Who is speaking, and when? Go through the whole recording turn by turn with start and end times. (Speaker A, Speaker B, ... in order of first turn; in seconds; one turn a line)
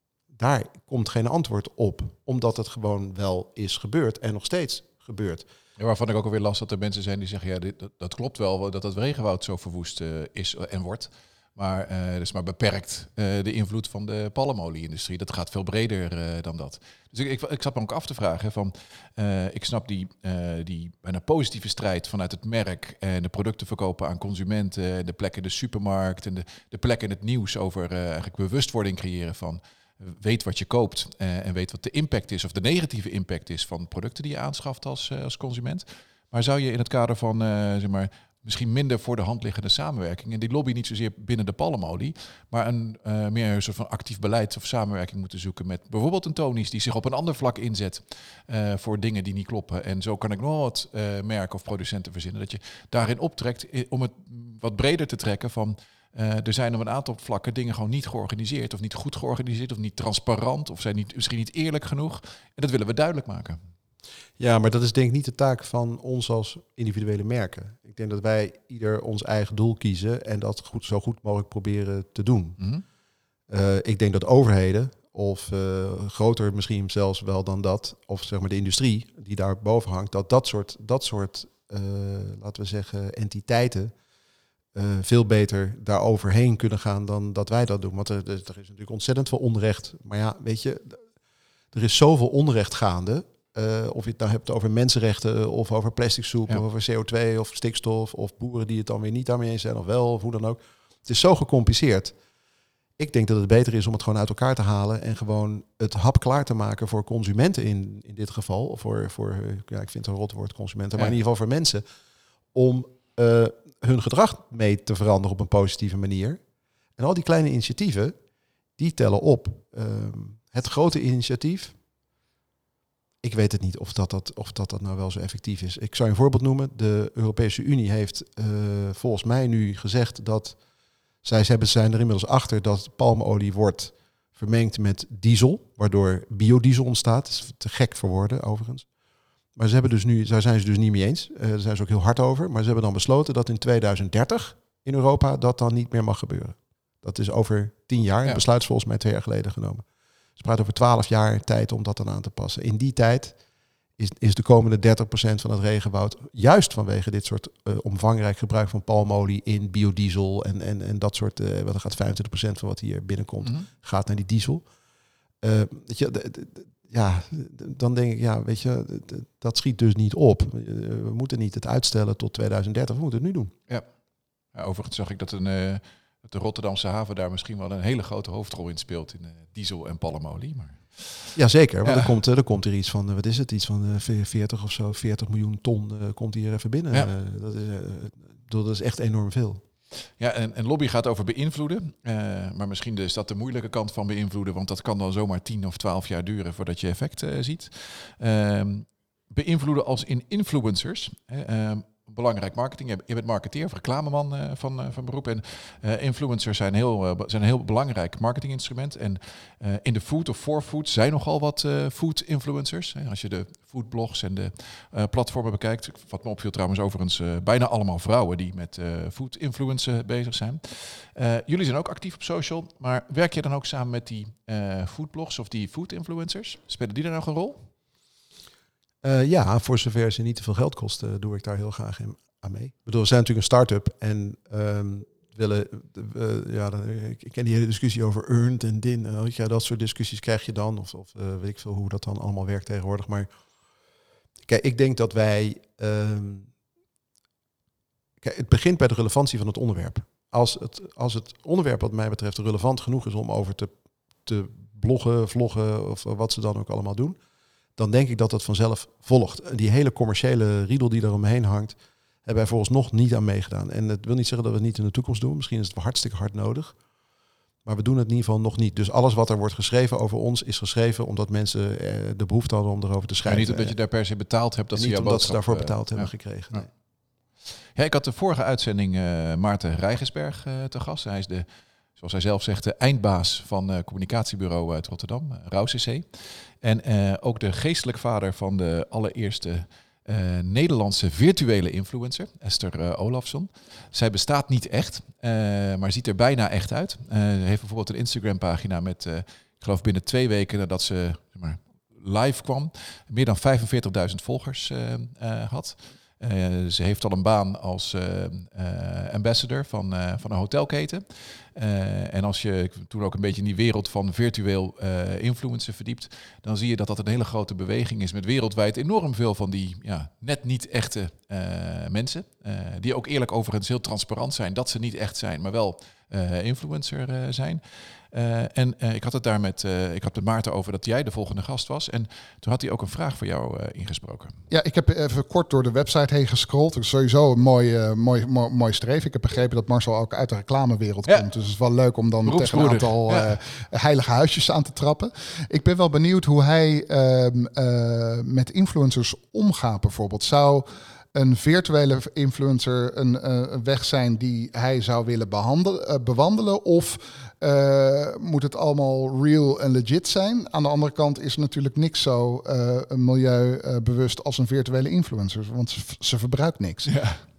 Speaker A: 0.3-5.5
Speaker B: 5.8-63.6
Speaker A: 64.4-72.6
Speaker A: 73.5-83.9
Speaker A: 84.7-91.0
Speaker A: 91.7-102.1
Speaker A: 103.0-111.8
Speaker A: 112.5-116.4
Speaker A: 117.0-118.1
Speaker A: 118.8-121.8
Speaker A: 123.2-130.6
Speaker A: 131.2-138.8
Speaker A: 139.6-149.8
Speaker A: 150.4-153.3
Speaker A: 154.0-164.6
Speaker B: 163.4-163.7
Speaker A: 165.4-173.5
Speaker B: 174.5-182.1
Speaker A: 181.3-189.6
Speaker B: 190.2-227.7
Speaker A: 229.0-243.3
Speaker A: 244.5-246.5
Speaker A: 248.2-253.7
Speaker A: 254.2-257.2
Speaker A: 257.8-266.8
Speaker A: 267.6-273.7
Speaker B: 273.2-276.7
Speaker A: 274.7-276.7
Speaker B: 277.7-334.4
Speaker C: 334.5-366.9
Speaker B: 342.2-343.3
Speaker B: 366.9-367.2